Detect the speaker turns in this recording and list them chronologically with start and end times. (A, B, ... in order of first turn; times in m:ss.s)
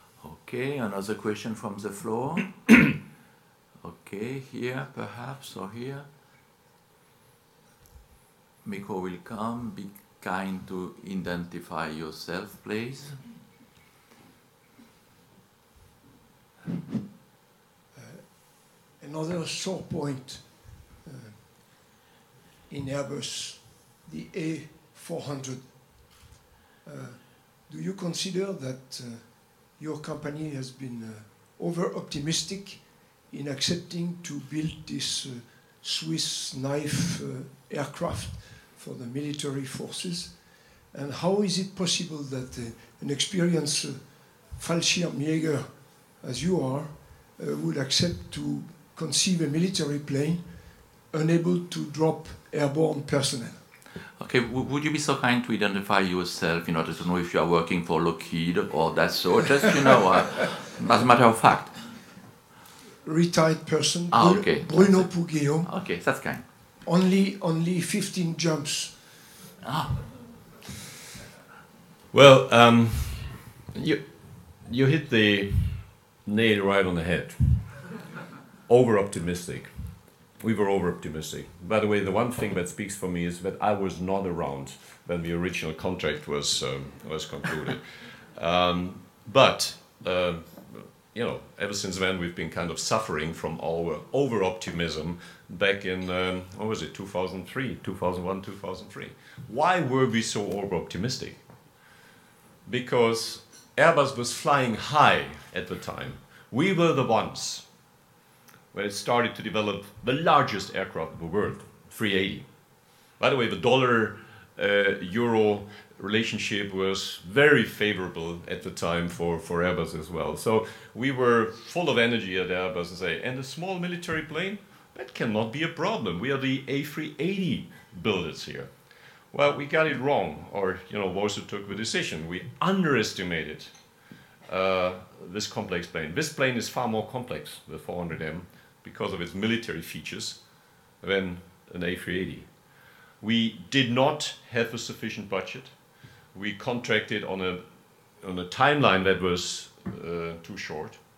0:00.2-0:02.9 A
0:03.8-0:06.1 A
0:08.6-0:13.2 A
0:17.9-0:21.9 B
0:22.7-0:26.3 B
0:26.8-0:53.6 B
0:54.2-1:02.0 A
1:03.0-1:05.7 B
1:04.1-1:06.4 A
1:06.8-1:09.2 B
1:09.6-1:10.1 A
1:12.1-1:17.7 C
1:18.7-1:19.7 C
1:20.4-1:41.4 C
1:42.7-1:47.6 C
1:48.7-1:52.5 C
1:53.2-2:08.7 C
2:09.3-2:13.7 C
2:14.5-2:20.4 C
2:21.0-2:22.5 C
2:23.2-2:25.7 C
2:26.3-2:27.6 C
2:28.2-2:31.0 C